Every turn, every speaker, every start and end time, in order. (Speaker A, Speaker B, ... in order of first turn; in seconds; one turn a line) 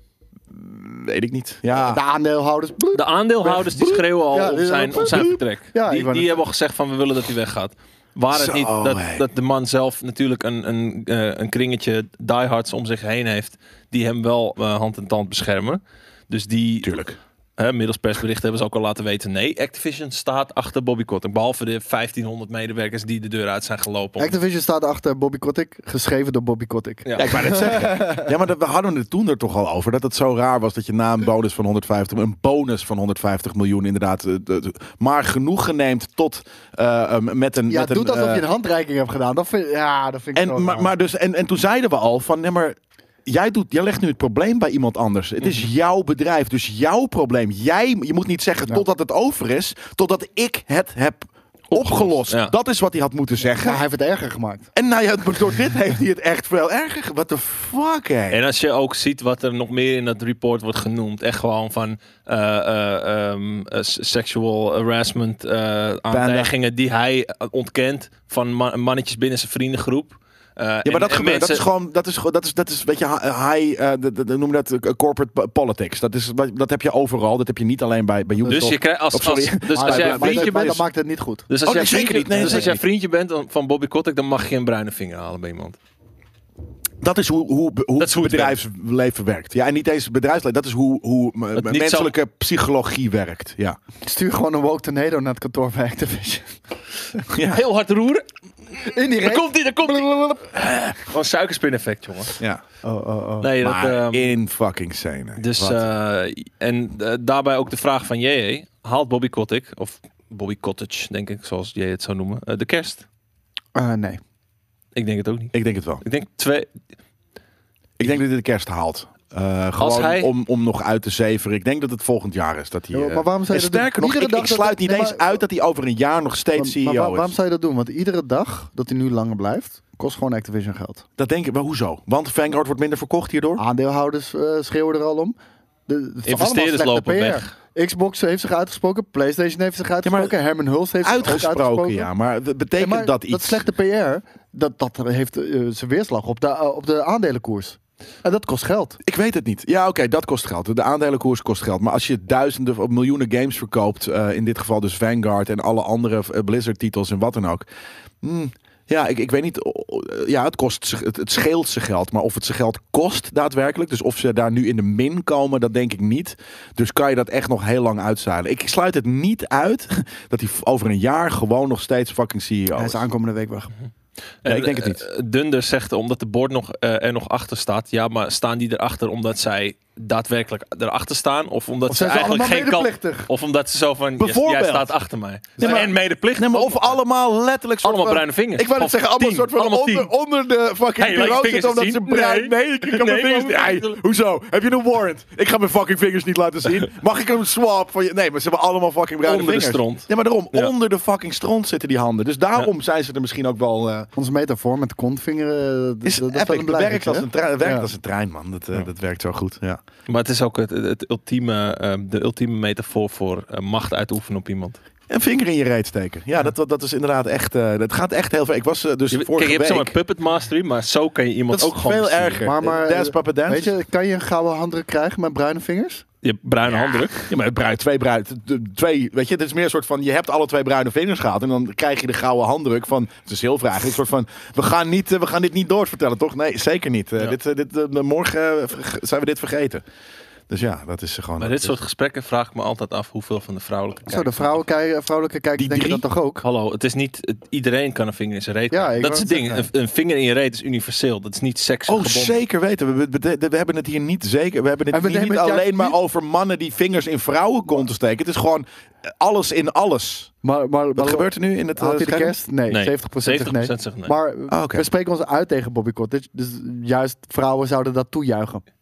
Speaker A: 0.5-2.0
Speaker B: 1.7-6.4
Speaker C: 2.9-17.0
Speaker A: 5.0-5.4
Speaker A: 8.3-9.2
Speaker A: 16.8-17.2
Speaker C: 17.6-24.4
Speaker B: 24.2-28.3
Speaker C: 27.0-27.4
Speaker A: 27.2-38.5
Speaker B: 37.7-40.9
Speaker A: 40.3-53.8
Speaker C: 51.7-52.5
Speaker B: 53.6-54.7
Speaker A: 54.7-58.4
Speaker C: 58.3-71.7
Speaker A: 66.1-66.5
Speaker A: 70.8-80.8
Speaker C: 78.5-80.7
Speaker B: 79.7-81.5
Speaker C: 81.5-85.8
Speaker A: 81.6-82.8
Speaker B: 82.3-82.7
Speaker A: 87.0-93.8
Speaker C: 88.0-88.6
Speaker C: 91.5-92.1
Speaker B: 94.0-96.6
Speaker A: 97.3-97.6
Speaker C: 97.5-98.2
Speaker B: 98.8-100.4
Speaker C: 98.9-102.4
Speaker B: 102.8-103.5
Speaker C: 103.4-104.3
Speaker A: 103.6-105.9
Speaker C: 105.4-113.0
Speaker B: 113.7-114.2
Speaker C: 114.9-116.8
Speaker A: 115.5-116.0
Speaker A: 118.0-127.3
Speaker C: 119.8-120.3
Speaker B: 122.9-125.4
Speaker B: 126.6-131.0
Speaker A: 131.2-133.6
Speaker B: 133.6-135.3
Speaker B: 135.9-142.1
Speaker C: 136.2-137.5
Speaker A: 140.0-140.3
Speaker A: 141.0-143.7
Speaker B: 142.8-149.0
Speaker A: 149.0-157.6
Speaker A: 158.2-173.0
Speaker B: 172.8-173.7
Speaker C: 174.4-187.0
Speaker A: 174.4-175.0
Speaker B: 181.9-183.3
Speaker A: 184.2-184.9
Speaker B: 185.6-185.8
Speaker A: 185.6-204.1
Speaker C: 187.8-190.1
Speaker C: 191.0-194.0
Speaker C: 199.2-200.7
Speaker B: 204.2-207.9
Speaker A: 206.0-209.8
Speaker C: 210.1-214.8
Speaker A: 215.1-219.9
Speaker C: 219.1-222.5
Speaker A: 221.5-223.7
Speaker B: 222.4-226.0
Speaker C: 226.2-227.3
Speaker A: 226.7-239.8
Speaker A: 240.5-241.8
Speaker C: 241.4-244.6
Speaker B: 244.1-246.4
Speaker A: 245.6-246.0
Speaker C: 246.4-252.4
Speaker B: 248.7-249.7
Speaker A: 251.9-260.3
Speaker B: 254.9-255.9
Speaker B: 260.4-268.6
Speaker A: 260.9-262.4
Speaker C: 262.7-264.1
Speaker A: 264.5-264.8